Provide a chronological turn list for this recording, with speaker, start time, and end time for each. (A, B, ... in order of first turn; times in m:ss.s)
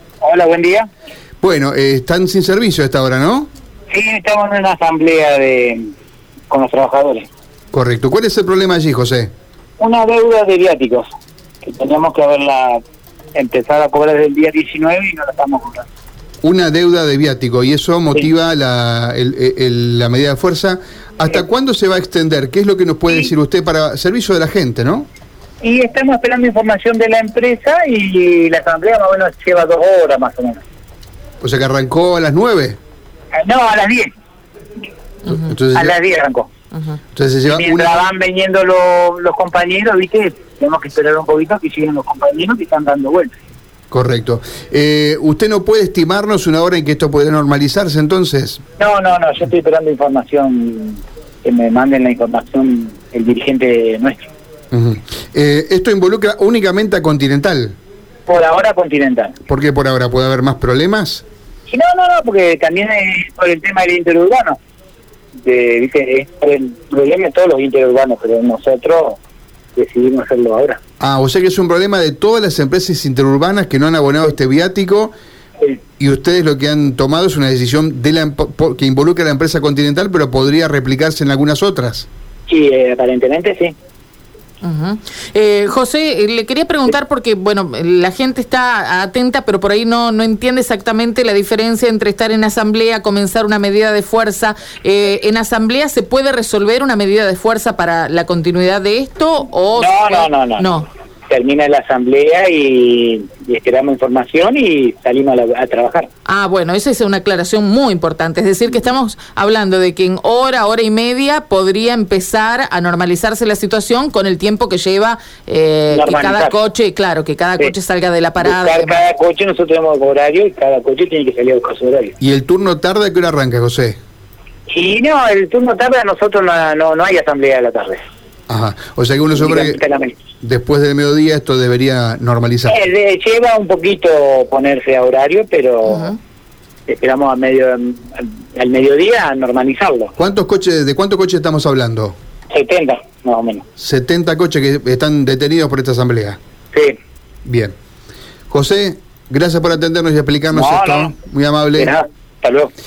0:00.2-0:00.9 A
0:01.4-0:03.5 B
0:03.9-0:05.9 A
0:06.5-0:07.3 A
0:07.7-0:09.3 B
0:09.8-0:11.1 A
0:11.6-0:12.8 A
0:13.3-0:15.8 A
0:16.4-0:25.1 B
0:25.6-0:30.6 A
0:31.4-0:32.8 B
0:33.3-0:34.1 A
0:35.3-0:35.9 B
0:35.7-0:36.5 A
0:37.1-0:38.0 B
0:37.5-0:43.3 A
0:43.9-0:48.6 B
0:48.8-0:54.3 A
0:54.7-0:57.8 B
0:58.3-0:59.4 A
0:59.5-1:01.2 B
1:01.7-1:04.6 A
1:05.4-1:09.2 A
1:09.8-1:10.8 A
1:11.0-1:15.1 B
1:16.0-1:22.1 B
1:22.5-1:23.7 A
1:24.6-1:40.9 C
1:39.8-1:40.7 A
1:41.3-1:46.1 A
1:46.2-1:59.0 C
1:55.9-1:56.6 A
1:58.4-2:02.2 A
2:02.2-2:04.0 B
2:04.7-2:08.0 A
2:08.5-2:09.8 B
2:09.3-2:10.2 A
2:10.4-2:12.8 B
2:12.7-2:16.1 A
2:15.9-2:16.2 C
2:16.9-2:20.1 A
2:20.2-2:22.1 B
2:22.5-2:23.6 A
2:23.8-2:26.4 B
2:27.4-2:27.7 B
2:28.5-2:31.9 B
2:30.5-2:31.1 A
2:31.8-2:32.7 A